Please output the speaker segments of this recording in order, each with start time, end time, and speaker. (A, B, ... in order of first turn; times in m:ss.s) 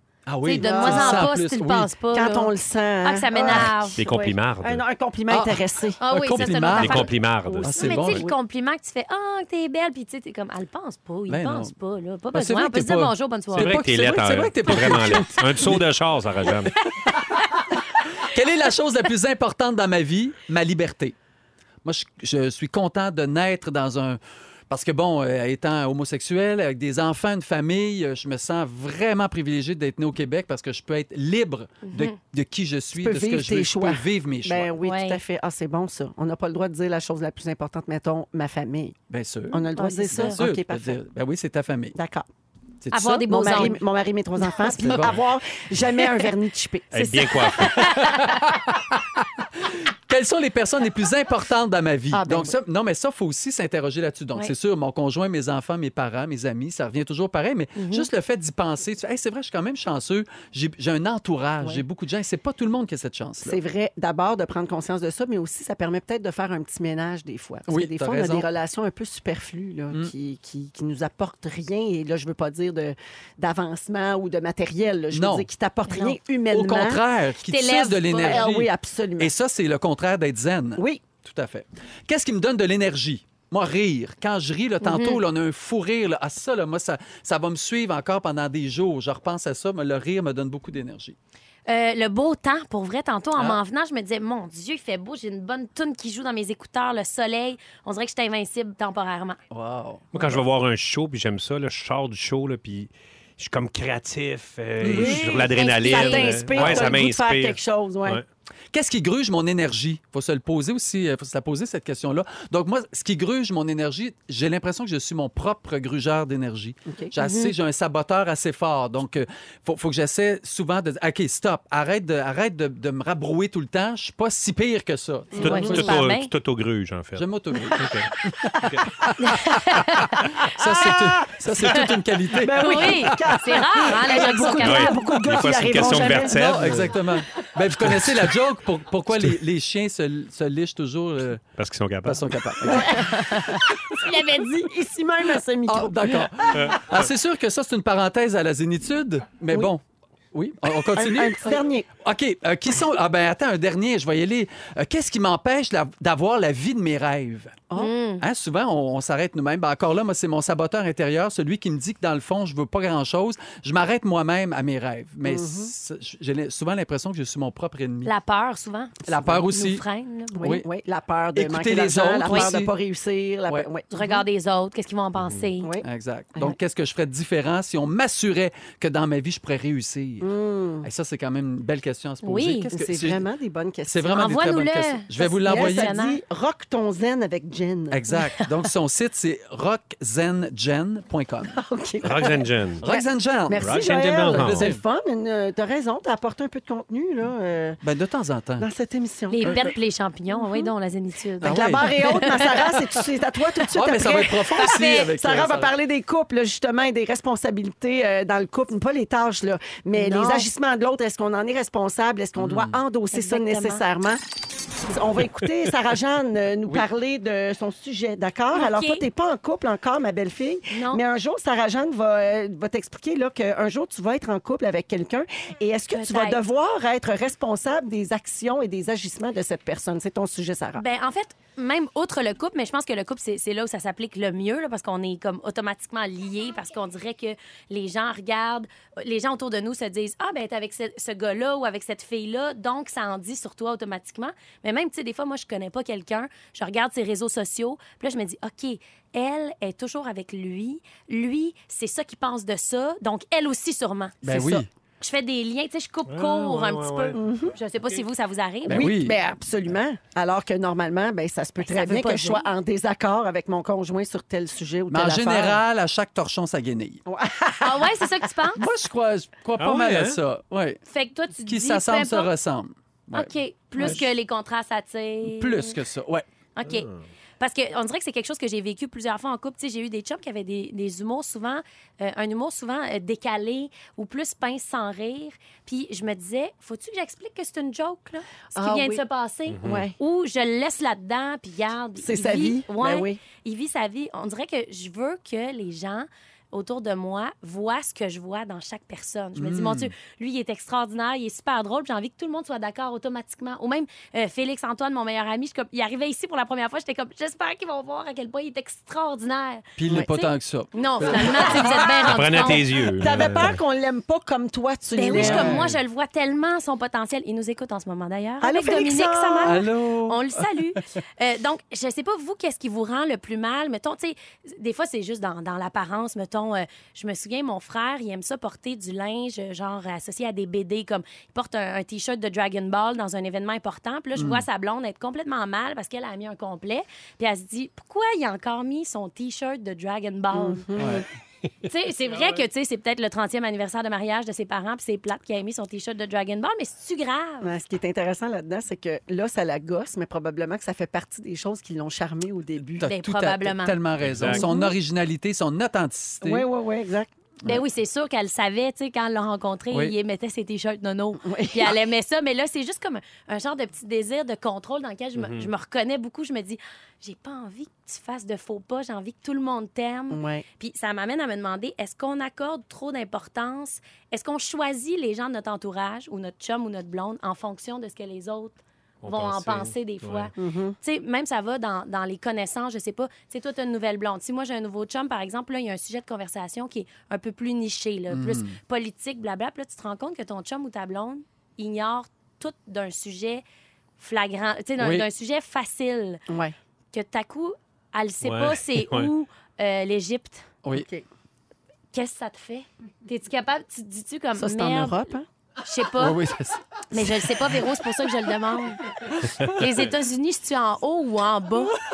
0:00.3-0:01.9 A
0:00.4-0:02.5 B
0:00.6-0:01.4 C
0:02.1-0:06.4 C
0:03.0-0:04.0 B
0:03.5-0:04.8 D
0:05.3-0:08.3 A
0:06.0-0:13.9 B
0:06.6-0:08.2 D
0:11.3-0:11.7 A
0:12.3-0:15.9 A
0:13.5-0:16.8 D
0:16.4-0:17.1 A
0:18.2-0:21.1 A
0:21.8-0:34.7 A
0:31.8-0:32.2 B
0:32.9-0:39.0 C
0:34.8-0:35.2 B
0:39.1-0:42.0 A
0:39.5-0:41.0 C
0:39.8-0:40.4 B
0:42.0-0:42.3 C
0:42.8-0:43.7 A
0:42.9-0:43.8 B
0:43.3-0:47.6 C
0:44.8-0:45.2 A
0:46.9-0:48.2 D
0:47.6-0:48.4 B
0:47.8-1:03.6 A
0:52.1-0:52.6 C
0:57.8-0:58.1 B
1:03.4-1:17.0 C
1:07.7-1:08.5 A
1:15.1-1:15.5 A
1:15.9-1:16.2 B
1:16.5-1:31.2 A
1:17.4-1:18.5 B
1:18.2-1:19.3 C
1:20.8-1:21.0 C
1:24.8-1:25.2 B
1:31.7-1:39.4 B
1:39.5-1:40.4 A
1:40.1-1:48.2 D
1:44.8-1:45.4 A
1:44.8-1:48.2 C
1:45.6-1:46.5 B
1:46.5-1:46.9 A
1:48.7-2:05.9 A
1:57.2-1:57.5 B
2:05.3-2:06.0 C
2:05.4-2:06.3 B
2:05.4-2:08.1 D
2:07.2-2:13.4 A
2:08.6-2:09.0 D
2:09.2-2:10.5 B
2:10.7-2:11.1 C
2:11.5-2:11.9 B
2:12.3-2:16.7 C
2:12.6-2:15.1 B
2:14.6-2:17.0 D
2:15.5-2:21.4 A
2:17.8-2:18.3 D
2:21.6-2:22.2 D
2:22.0-2:23.5 A
2:22.6-2:26.7 C
2:25.7-2:29.8 A
2:26.5-2:27.1 D
2:30.3-2:37.7 A
2:31.0-2:31.9 C
2:37.8-2:38.2 B
2:38.2-2:48.1 A
2:45.2-2:45.7 C
2:48.0-2:50.6 B
2:49.1-2:49.8 A
2:50.4-2:54.2 C
2:51.4-2:52.7 A
2:53.9-2:55.7 B
2:55.2-2:55.4 D
2:55.6-2:56.6 C
2:55.8-3:03.3 A
3:00.2-3:00.9 C
3:02.2-3:02.7 B
3:02.7-3:04.3 C
3:03.9-3:05.9 A
3:04.1-3:06.2 B
3:05.4-3:08.0 C
3:07.9-3:11.6 A
3:11.5-3:17.8 C
3:12.0-3:12.8 D
3:12.8-3:14.8 A
3:13.5-3:14.7 D
3:17.8-3:18.7 A
3:18.6-3:19.6 C
3:19.3-3:22.4 B
3:19.4-3:19.7 A
3:21.4-3:23.0 A
3:21.4-3:34.2 C
3:23.7-3:25.7 A
3:24.6-3:25.1 B
3:30.0-3:30.5 B
3:32.4-3:32.8 A
3:33.1-3:33.8 B
3:34.8-3:50.8 C
3:38.5-3:39.0 B
3:40.7-3:41.0 B
3:45.9-3:46.4 B
3:50.8-4:18.9 B
4:14.2-4:14.7 A
4:16.1-4:17.2 D
4:17.1-4:17.6 C
4:18.7-4:25.6 C
4:18.7-4:19.2 A
4:21.6-4:22.4 B
4:24.9-4:27.0 A
4:27.1-4:28.0 C
4:27.6-4:28.6 B
4:28.6-4:30.8 A
4:29.6-4:30.2 D
4:30.9-4:32.3 B
4:31.5-4:34.1 A
4:33.1-4:35.8 B
4:35.2-4:36.2 A
4:36.6-4:36.9 B
4:36.7-4:37.0 D
4:37.4-5:12.7 B
4:48.6-4:49.0 C
4:49.5-4:49.8 D
4:49.6-4:50.0 C
4:52.0-4:53.2 C
4:59.4-4:59.9 A
5:09.8-5:11.8 A
5:12.0-5:13.6 D
5:12.2-5:15.6 C
5:15.0-5:40.7 B
5:15.1-5:15.7 A
5:18.4-5:19.6 C
5:19.4-5:20.8 A
5:34.2-5:34.4 A
5:40.3-5:41.0 C
5:40.8-5:41.0 A
5:41.6-5:47.5 B
5:47.4-5:52.9 C
5:52.8-5:56.5 A
5:52.8-5:54.5 B
5:54.0-5:54.4 D
5:54.3-5:54.7 C
5:56.2-5:57.1 C
5:57.4-6:33.4 B
6:01.2-6:01.8 C
6:05.2-6:05.5 D
6:10.1-6:10.4 C
6:19.0-6:20.3 D
6:20.4-6:20.8 C
6:28.1-6:28.6 A
6:34.0-6:36.2 B
6:34.8-6:35.1 A
6:36.3-6:36.6 C
6:36.9-6:40.5 B
6:38.2-6:39.1 D
6:40.7-6:41.0 C
6:41.9-6:45.1 B
6:44.4-6:45.3 C
6:45.6-6:46.2 B
6:46.0-6:47.3 A
6:46.9-6:48.8 B
6:49.2-6:49.5 A
6:49.4-6:49.9 D
6:49.4-6:51.8 B